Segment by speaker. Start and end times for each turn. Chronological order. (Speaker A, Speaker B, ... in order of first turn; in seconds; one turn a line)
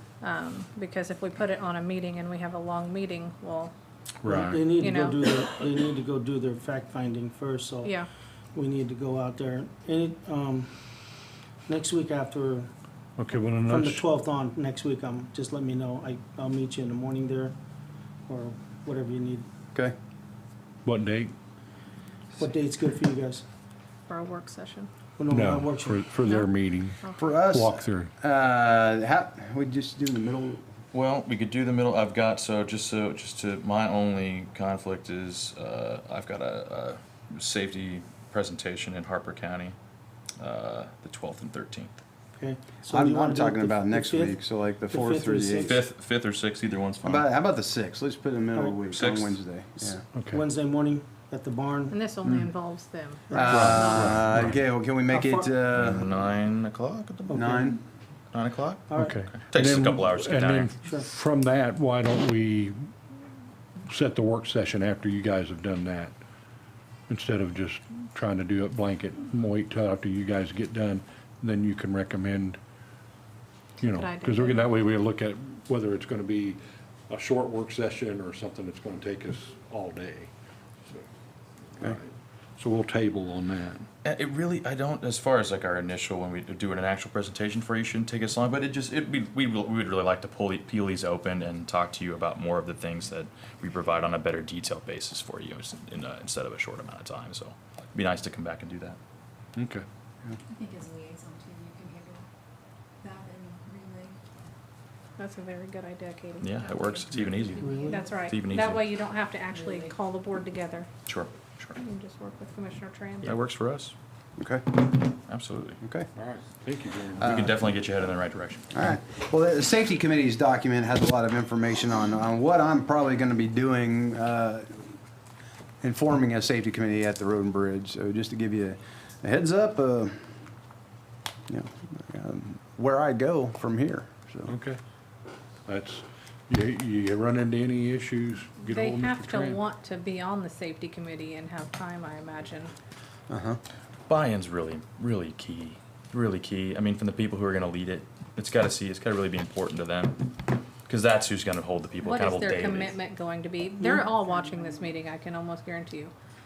Speaker A: 0.2-3.7
Speaker B: 4.2-4.7
Speaker C: 4.3-7.9
Speaker A: 4.8-5.2
Speaker A: 7.8-8.1
Speaker C: 8.5-10.7
Speaker C: 11.7-12.7
Speaker B: 13.2-14.0
Speaker C: 13.7-17.5
Speaker C: 18.3-19.5
Speaker B: 20.8-21.3
Speaker C: 22.4-23.4
Speaker A: 24.1-24.9
Speaker C: 25.2-26.0
Speaker B: 25.3-28.1
Speaker A: 26.2-26.5
Speaker D: 27.2-30.6
Speaker E: 30.9-39.8
Speaker E: 40.4-42.0
Speaker C: 42.4-44.4
Speaker D: 42.9-45.8
Speaker C: 44.9-45.8
Speaker E: 45.6-47.3
Speaker D: 47.0-50.0
Speaker E: 48.9-49.4
Speaker B: 50.1-50.4
Speaker C: 50.3-52.0
Speaker A: 51.9-54.2
Speaker C: 53.3-53.6
Speaker D: 53.3-56.0
Speaker B: 53.5-54.5
Speaker C: 55.1-55.5
Speaker E: 55.7-57.6
Speaker C: 57.3-57.8
Speaker D: 57.3-57.8
Speaker E: 58.3-60.7
Speaker C: 58.9-59.1
Speaker B: 59.0-62.9
Speaker B: 63.9-66.1
Speaker B: 67.1-72.6
Speaker A: 73.8-74.7
Speaker B: 73.8-80.3
Speaker B: 81.8-83.9
Speaker E: 84.0-99.0
Speaker B: 99.5-99.8
Speaker F: 100.5-102.2
Speaker F: 103.0-104.2
Speaker A: 105.2-106.5
Speaker E: 106.4-108.9
Speaker C: 107.6-108.0
Speaker A: 107.9-110.9
Speaker E: 111.0-111.8
Speaker A: 111.8-113.4
Speaker E: 113.2-113.9
Speaker D: 114.4-114.9
Speaker E: 115.3-115.8
Speaker D: 115.8-116.1
Speaker B: 116.2-117.4
Speaker D: 117.2-117.5
Speaker E: 117.2-118.7
Speaker D: 118.7-124.8
Speaker D: 125.8-130.2
Speaker D: 131.5-134.5
Speaker B: 134.5-134.8
Speaker B: 135.7-139.6
Speaker A: 138.7-142.7
Speaker D: 143.3-143.6
Speaker E: 144.1-152.9
Speaker A: 152.0-156.1